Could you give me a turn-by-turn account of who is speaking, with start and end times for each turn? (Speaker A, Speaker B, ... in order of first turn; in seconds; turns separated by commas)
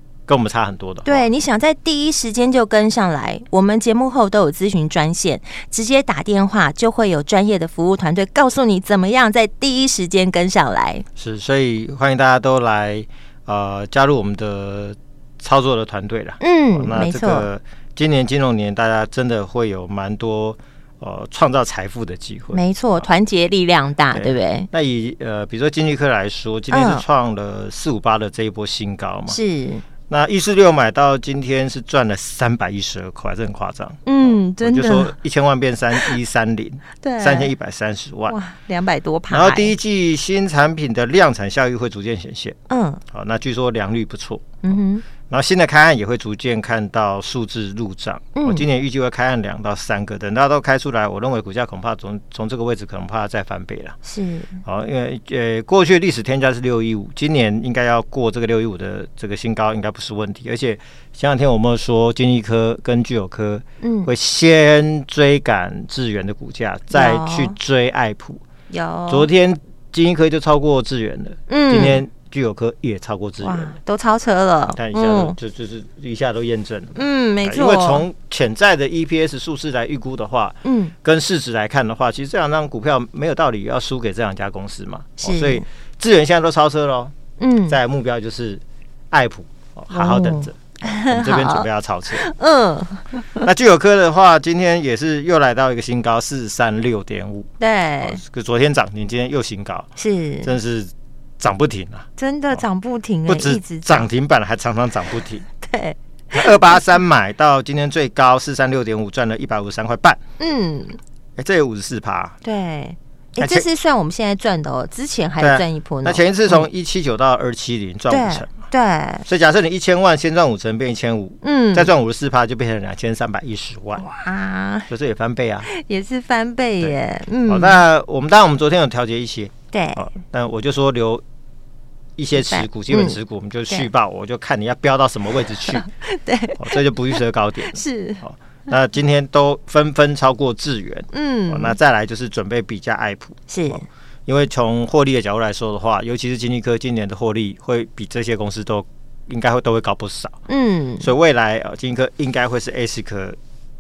Speaker A: 0.3-1.3, Speaker B: 1.1-11.1, Speaker A: 11.2-23.1, Speaker B: 16.4-17.5, Speaker B: 22.5-24.7, Speaker A: 24.1-29.4, Speaker B: 26.7-27.1, Speaker B: 29.3-29.9, Speaker A: 30.1-38.4, Speaker B: 34.1-35.1, Speaker B: 37.0-37.5, Speaker B: 38.3-39.8, Speaker A: 39.3-42.6, Speaker B: 42.7-43.0, Speaker A: 43.1-54.0, Speaker B: 44.6-45.1, Speaker B: 48.4-48.7, Speaker B: 54.0-54.6, Speaker A: 54.6-68.4, Speaker B: 63.8-64.1, Speaker B: 66.9-67.6, Speaker B: 68.7-69.3, Speaker A: 69.1-73.8, Speaker B: 71.5-72.0, Speaker B: 73.4-75.4, Speaker A: 74.7-87.2, Speaker B: 77.0-78.1, Speaker B: 80.6-80.9, Speaker B: 85.2-85.6, Speaker B: 87.4-87.8, Speaker A: 87.7-92.3, Speaker B: 89.9-93.5, Speaker A: 93.4-97.5, Speaker B: 97.6-98.2, Speaker A: 98.0-99.9, Speaker B: 100.0-100.5, Speaker A: 100.4-102.6, Speaker B: 102.2-104.1, Speaker A: 103.3-105.5, Speaker B: 105.6-106.8, Speaker A: 106.3-110.2, Speaker B: 110.4-111.0, Speaker A: 111.4-112.4, Speaker B: 112.4-116.7, Speaker A: 113.4-113.7, Speaker A: 115.4-118.5, Speaker B: 118.1-119.2, Speaker A: 119.2-124.1, Speaker B: 121.4-121.9, Speaker B: 124.0-124.9, Speaker A: 124.9-125.7, Speaker B: 125.7-127.8, Speaker A: 126.8-131.2, Speaker B: 129.7-130.1, Speaker A: 132.2-135.8, Speaker B: 132.3-133.2, Speaker B: 135.7-138.2, Speaker A: 136.6-150.4, Speaker B: 141.1-141.8, Speaker B: 143.5-143.8, Speaker B: 150.5-151.1, Speaker A: 151.0-153.4